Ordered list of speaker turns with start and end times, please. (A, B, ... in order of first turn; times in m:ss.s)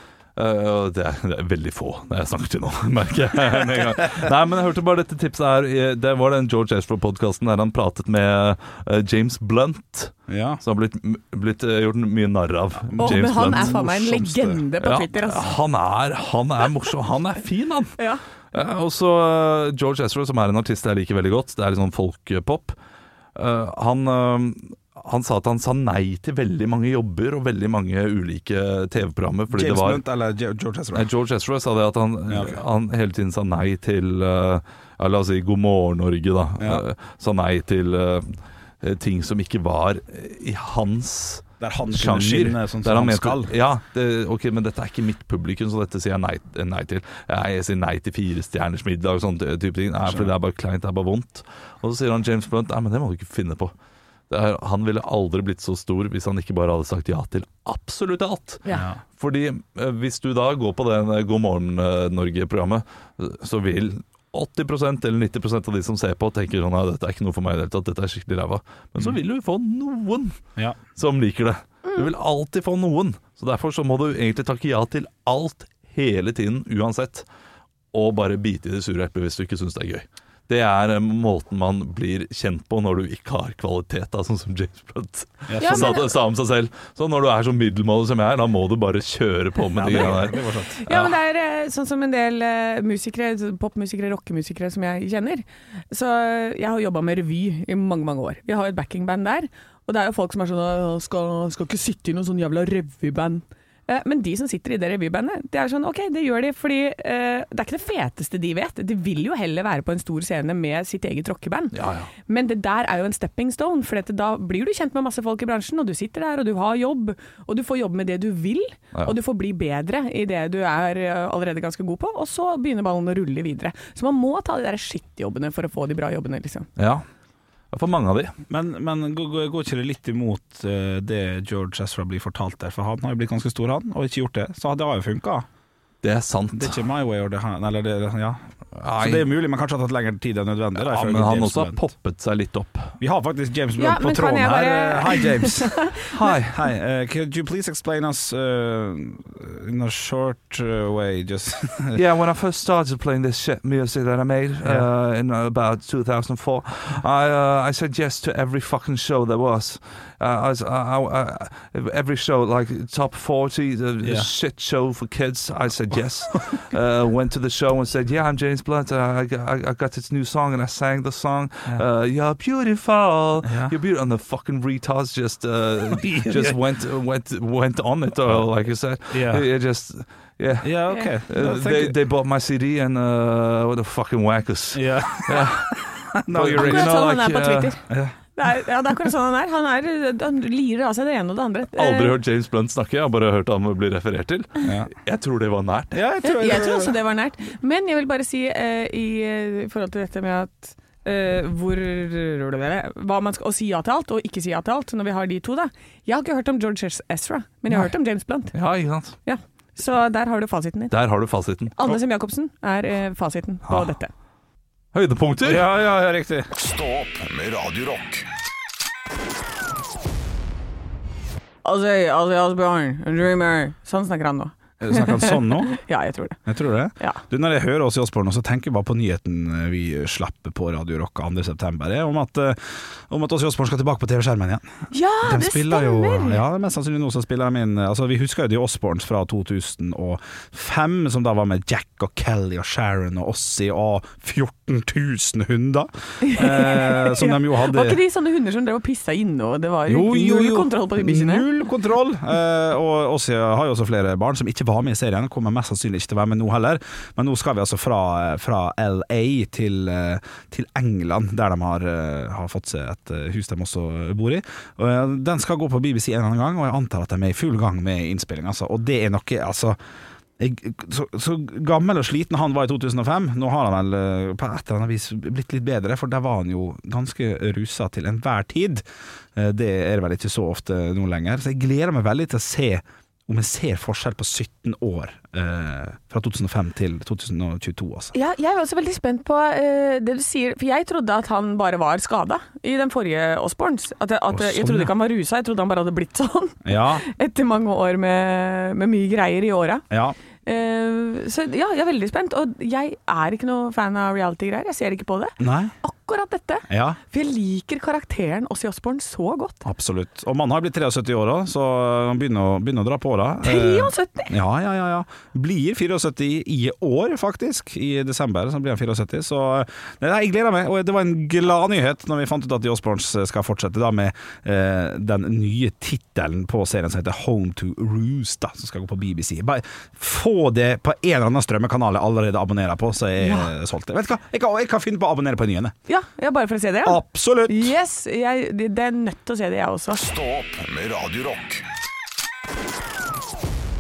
0:00.4-0:13.8 A
0:10.3-0:10.6 B
0:12.9-0:14.6 B
0:13.0-0:15.6 C
0:14.8-0:18.0 A
0:18.5-0:22.8 A
0:23.4-0:30.0 A
0:29.5-0:31.1 B
0:30.9-0:53.7 A
0:32.3-0:32.6 B
0:36.6-0:36.8 B
0:41.6-0:43.5 B
0:54.3-1:10.4 A
0:58.7-0:59.0 B
1:10.9-1:17.3 A
1:17.9-1:31.1 A
1:25.5-1:26.0 B
1:25.6-1:26.1 C
1:29.7-1:30.8 B
1:30.8-1:51.8 C
1:51.7-1:52.1 A
1:52.3-2:06.7 C
2:06.8-2:07.0 A
2:07.7-2:08.3 A
2:08.5-2:15.5 B
2:16.0-2:16.8 A
2:16.5-2:18.5 B
2:18.8-2:19.3 A
2:19.0-2:21.8 B
2:20.8-2:23.0 A
2:23.0-2:32.0 B
2:23.8-2:26.1 C
2:26.1-2:26.6 A
2:31.9-3:07.8 A
2:44.0-2:44.3 B
2:53.4-2:53.7 B
2:55.9-2:56.6 B
2:59.1-2:59.5 B
3:00.6-3:02.0 B
3:04.7-3:07.0 B
3:06.6-3:07.8 C
3:07.9-3:08.1 B
3:08.4-3:12.2 C
3:11.8-3:16.0 A
3:14.6-3:14.9 B
3:15.9-3:17.0 B
3:16.2-3:28.6 C
3:28.5-3:29.2 A
3:29.2-3:30.9 C
3:30.9-3:31.7 A
3:31.8-3:34.1 C
3:34.9-3:35.7 A
3:35.4-3:36.5 B
3:36.5-3:38.3 D
3:41.6-3:46.4 C
3:44.8-3:45.7 B
3:46.5-3:54.7 B
3:54.9-3:56.4 C
3:55.2-4:08.0 B
4:06.2-4:11.5 C
4:09.9-4:29.8 B
4:30.4-4:38.8 B
4:39.4-4:48.1 B
4:48.1-4:59.9 C
4:54.3-4:54.9 B
4:56.6-4:57.1 B
4:59.9-5:00.2 B
5:00.4-5:09.6 C
5:05.4-5:05.7 B
5:06.7-5:07.0 B
5:09.6-5:35.8 B
5:13.4-5:14.4 C
5:33.2-5:33.5 C
5:35.9-5:40.0 C
5:36.8-5:37.7 B
5:39.9-5:41.6 D